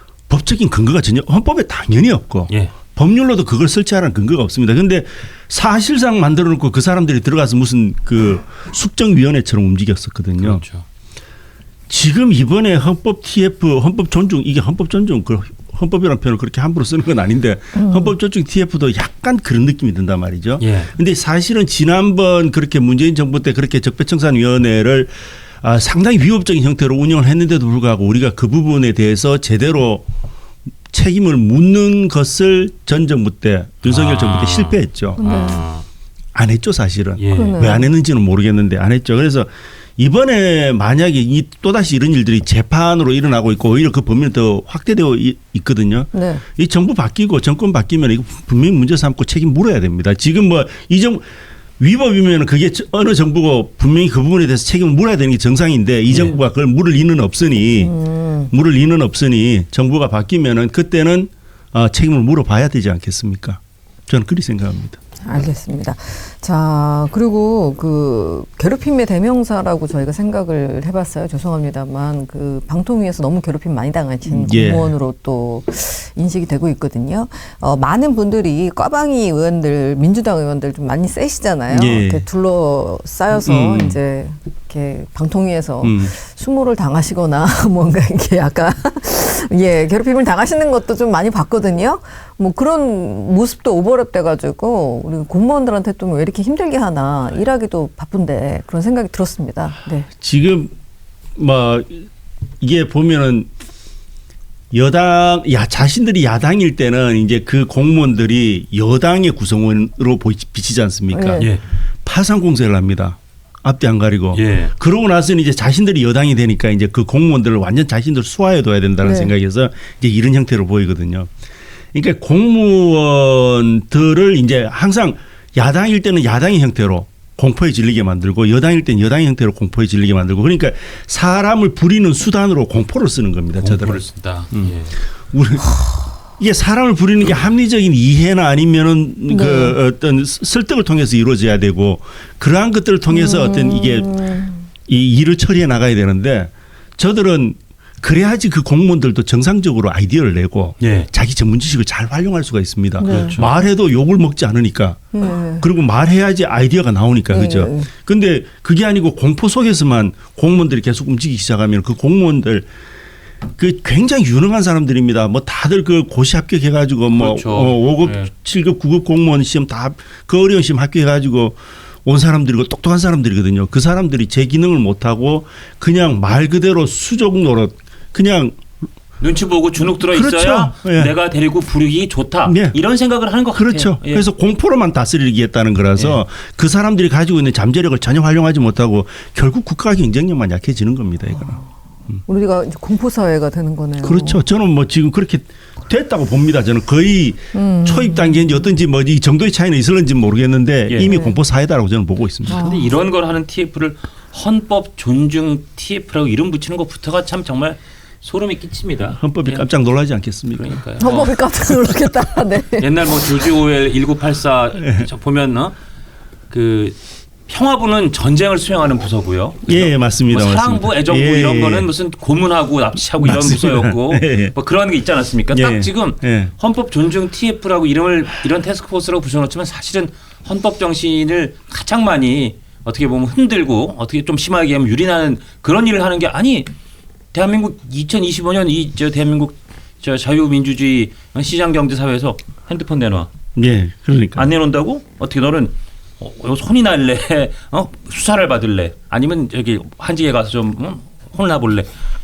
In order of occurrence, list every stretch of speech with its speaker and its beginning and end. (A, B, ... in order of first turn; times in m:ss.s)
0:00.3-0:10.6 A
0:10.4-0:10.8 B
0:11.9-0:30.0 A
0:17.8-0:18.1 C
0:20.6-0:20.9 B
0:30.9-0:35.4 A
0:33.8-0:35.8 B
0:35.2-0:35.7 C
0:36.3-0:51.2 A
0:37.2-0:37.6 B
0:37.3-0:37.9 C
0:46.1-0:46.4 C
0:51.8-0:57.9 A
0:57.8-0:58.5 C
0:58.5-1:05.0 A
1:05.2-1:40.1 C
1:14.3-1:14.9 A
1:21.7-1:22.2 A
1:23.3-1:24.0 A
1:25.8-1:26.1 A
1:40.2-1:40.7 A
1:41.4-1:42.1 A
1:42.6-1:43.5 A
1:44.7-1:51.4 A
1:51.1-1:51.6 C
1:52.0-2:01.3 A
1:54.3-1:54.7 B
1:59.0-1:59.3 C
2:01.9-2:14.7 A
2:13.6-2:15.0 B
2:15.3-2:24.3 A
2:19.3-2:19.8 C
2:23.1-2:24.6 C
2:24.9-2:42.7 A
2:30.8-2:31.1 B
2:33.0-2:33.4 C
2:33.0-2:33.5 B
2:35.1-2:35.7 C
2:37.3-2:37.9 C
2:43.6-2:58.6 A
2:47.1-2:48.3 B
2:59.2-3:04.2 B
3:00.0-3:01.1 A
3:02.5-3:02.8 A
3:03.5-3:12.2 A
3:12.3-3:14.4 C
3:14.0-3:22.6 A
3:17.5-3:18.7 C
3:20.9-3:21.2 B
3:21.0-3:21.4 C
3:22.5-3:29.7 B
3:22.5-3:22.9 C
3:29.2-3:30.8 A
3:30.6-3:31.9 B
3:31.0-3:33.5 C
3:32.8-3:35.8 B
3:34.8-3:35.1 A
3:36.5-3:37.0 B
3:37.5-3:56.7 B
3:39.7-3:41.9 A
3:43.2-3:44.5 A
3:45.5-3:46.5 A
3:57.3-4:03.3 B
4:03.6-4:04.5 A
4:04.4-4:11.9 B